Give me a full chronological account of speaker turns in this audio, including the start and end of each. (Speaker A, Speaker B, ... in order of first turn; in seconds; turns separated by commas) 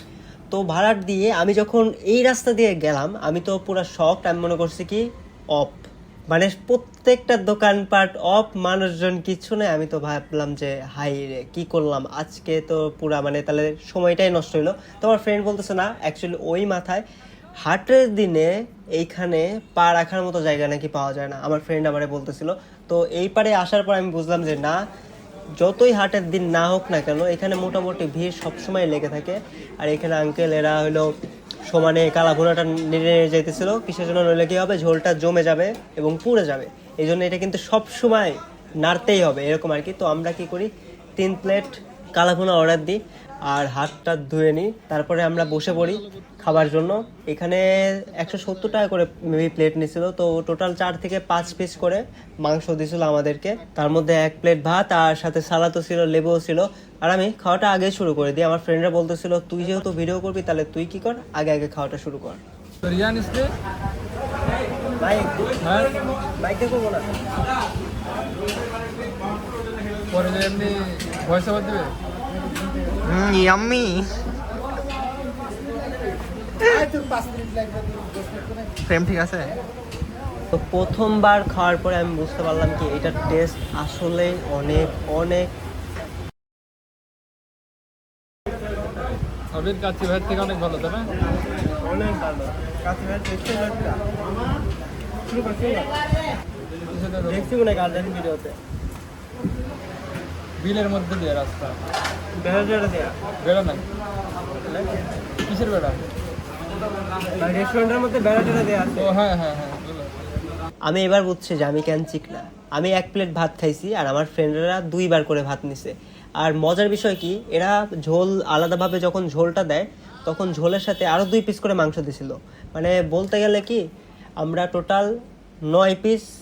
Speaker A: 0.5-5.0, Speaker A: 5.5-17.0, Speaker A: 17.6-24.8, Speaker A: 25.6-31.1, Speaker A: 31.7-62.4, Speaker B: 62.8-63.5, Speaker A: 65.0-65.5, Speaker B: 65.6-65.9, Speaker A: 66.4-67.1, Speaker B: 70.1-71.9, Speaker C: 73.0-74.2, Speaker C: 76.7-77.0, Speaker C: 78.8-79.5, Speaker A: 80.5-85.5, Speaker B: 89.5-91.1, Speaker A: 91.8-94.0, Speaker A: 95.3-96.0, Speaker B: 96.9-97.5, Speaker A: 97.2-98.6, Speaker B: 100.6-101.8, Speaker A: 102.4-103.2, Speaker B: 103.4-103.8, Speaker B: 105.5-106.0, Speaker A: 107.3-109.2, Speaker B: 109.0-110.2, Speaker A: 110.9-123.8, Speaker A: 124.4-125.1, Speaker A: 125.7-126.2